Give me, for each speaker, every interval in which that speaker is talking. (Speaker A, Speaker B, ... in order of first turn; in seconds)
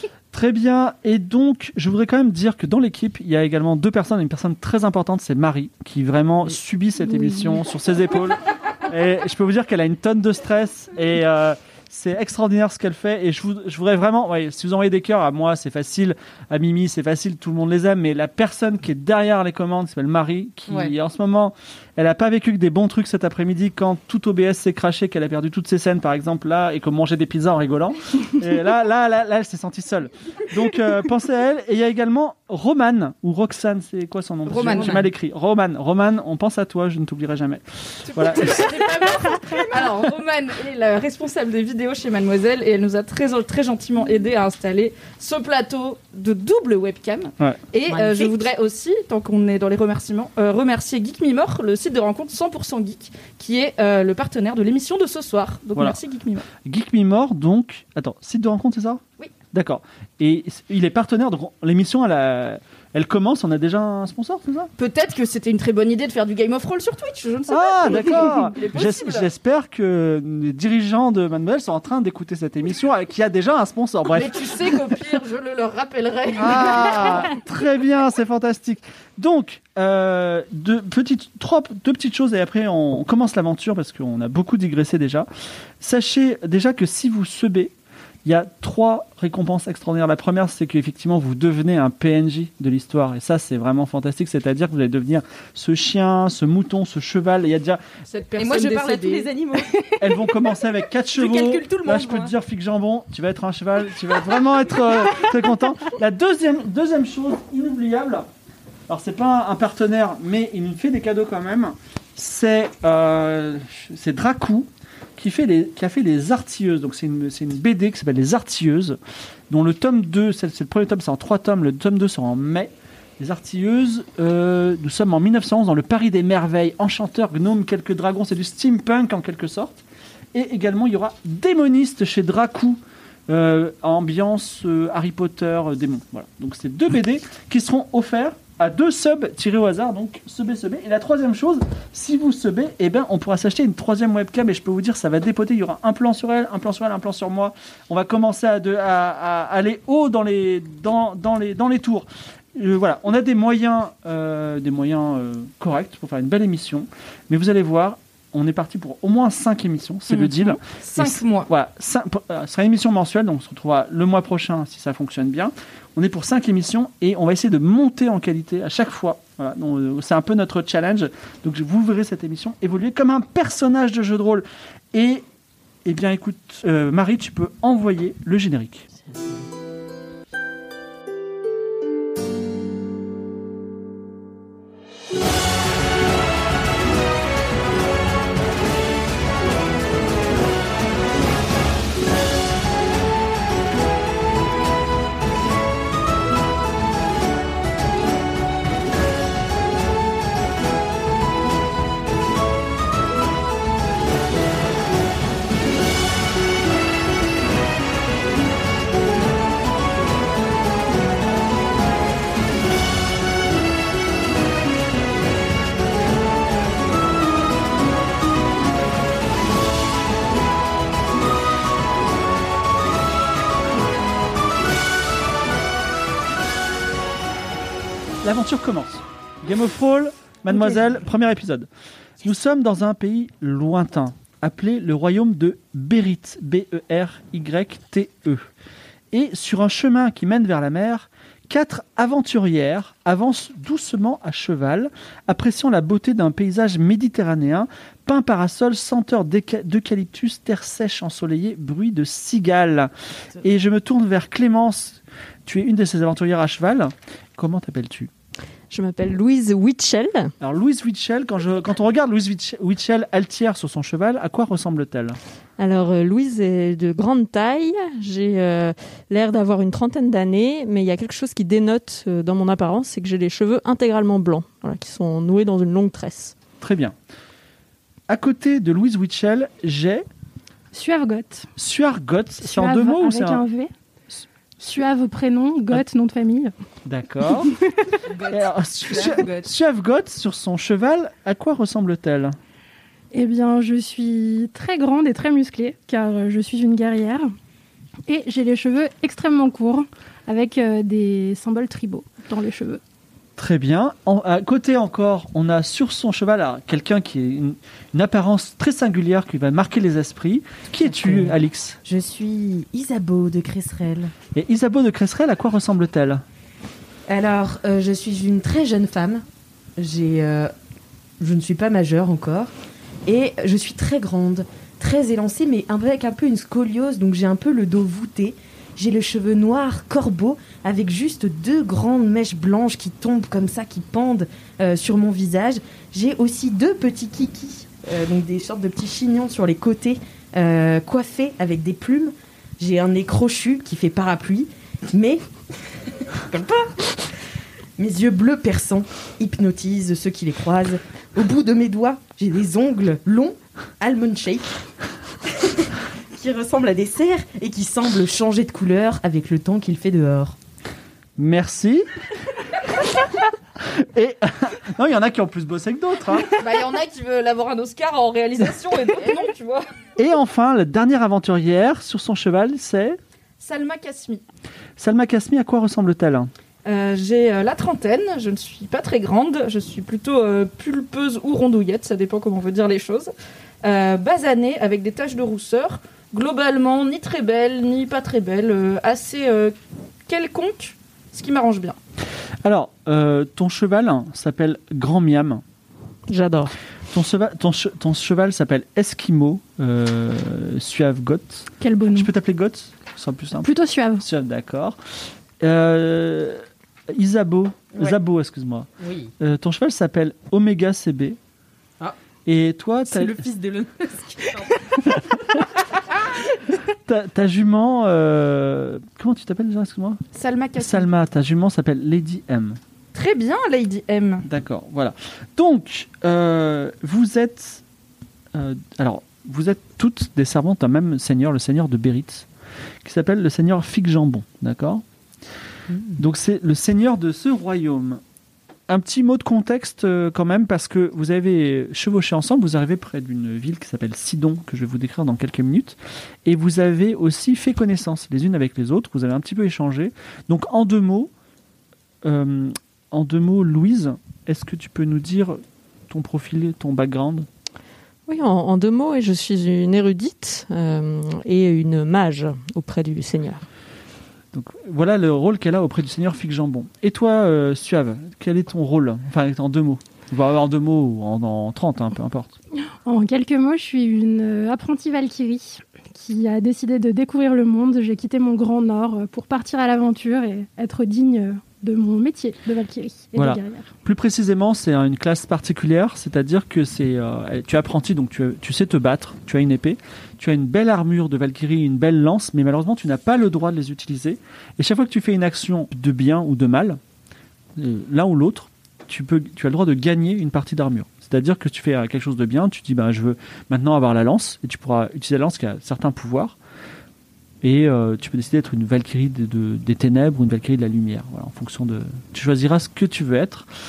Speaker A: 0.3-38.8, 56.6-59.0, 59.5-64.7, 67.5-74.5, 76.3-85.3, 85.8-87.7, 88.2-97.8, 100.0-108.2, 108.9-119.0, 119.5-129.7, 130.3-175.2, 175.8-178.9, 228.2-231.7, 232.2-238.5, 239.1-252.9, 253.4-258.1, 260.4-265.2, 276.6-276.9, 278.1-280.0, 281.6-283.4, 286.8-287.5, 288.3-292.4, 303.4-311.8, 314.3-316.2, 361.2-361.9, 363.6-366.4, 370.0-373.0, 374.8-376.3, 392.4-395.4, 396.9-404.8, 405.4-408.7, 409.2-411.2, 412.2-413.2, 416.9-420.0, 420.6-422.6, 424.2-427.6, 428.3-432.3, 432.8-434.8, 436.0-438.0, 438.7-451.1, 452.0-457.3, 464.3-472.3, 483.1-496.8, 497.6-506.4, 507.4-513.5
Speaker B: 20.7-20.9, 34.6-35.1, 47.9-48.3, 98.4-100.0, 101.1-102.3, 288.1-289.5, 310.8-314.1, 317.1-319.2, 319.8-320.5, 321.2-322.5, 323.1-345.2, 346.2-347.0, 347.8-354.5, 355.3-360.4, 408.8-409.1, 412.9-415.0, 435.7-436.0
Speaker C: 34.5-35.0, 38.0-56.5, 64.8-69.3, 74.1-77.3, 98.1-99.3, 160.1-161.5, 366.4-369.6, 373.4-374.2, 376.6-383.1, 383.6-389.5, 390.1-391.8, 420.1-420.9, 422.9-424.2
Speaker D: 258.7-260.3, 265.6-276.4, 396.1-396.5, 458.1-463.4
Speaker E: 280.7-281.5, 282.4-283.7, 284.6-286.5, 287.4-288.0, 293.1-297.3, 298.1-302.8, 401.6-402.1, 403.4-404.0, 472.8-483.7